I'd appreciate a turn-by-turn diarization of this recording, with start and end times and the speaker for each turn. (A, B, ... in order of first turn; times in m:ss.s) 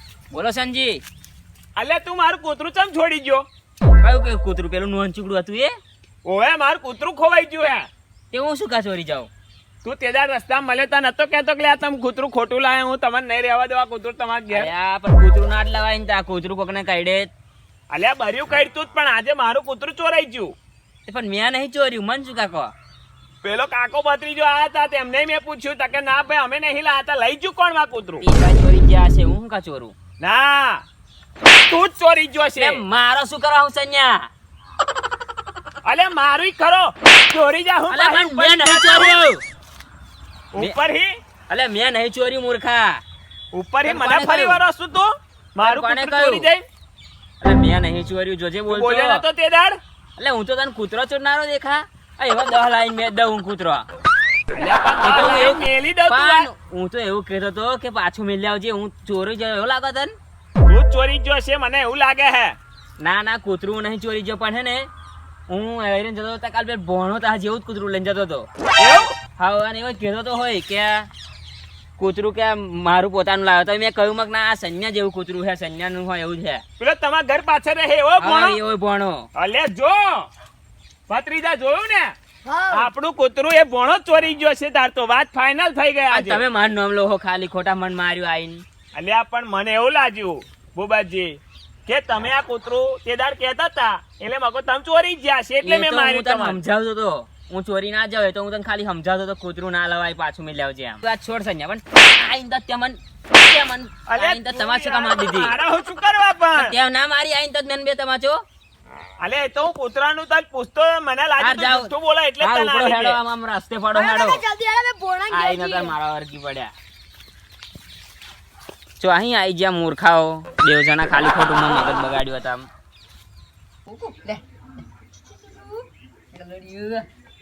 0:00.3-0:01.0 A
0:01.8-0:03.4 B
0:04.0-0:05.7 A
0:06.2-0:07.9 B
0:08.3-0:09.3 A
0:09.8-0:14.7 B
0:14.5-0:17.3 A
0:17.9-0:20.5 B
0:21.1-0:22.7 A
0:23.4-0:28.3 B
0:28.2-0:30.0 A
0:30.2-0:30.8 B
0:31.5-0:32.8 B
0:32.6-0:34.3 A
0:35.8-0:39.2 B
0:37.9-0:39.4 A
0:40.5-0:41.1 B
0:41.5-0:43.0 A
0:43.5-0:46.6 B
0:43.8-0:44.6 A
0:45.6-0:46.5 A
0:47.4-0:49.2 A
0:48.7-0:49.8 B
0:50.2-0:53.9 A
0:54.5-0:56.5 B
0:55.0-1:00.2 A
1:00.7-1:02.6 B
1:03.0-1:04.9 A
1:05.5-1:08.5 A
1:08.8-1:09.1 B
1:09.4-1:11.1 A
1:12.0-1:16.6 A
1:16.8-1:18.6 B
1:18.2-1:19.3 A
1:19.4-1:20.3 B
1:21.1-1:22.1 B
1:22.4-1:22.9 C
1:22.7-1:26.4 B
1:26.1-1:28.6 A
1:28.9-1:36.6 B
1:35.6-1:45.6 A
1:44.1-1:46.8 B
1:46.5-1:48.4 A
1:49.2-1:53.2 B
1:51.4-1:54.4 A
1:53.9-1:56.0 C
1:55.3-1:56.7 A
1:59.0-2:02.7 A
2:03.9-2:04.4 D
2:05.4-2:07.0 D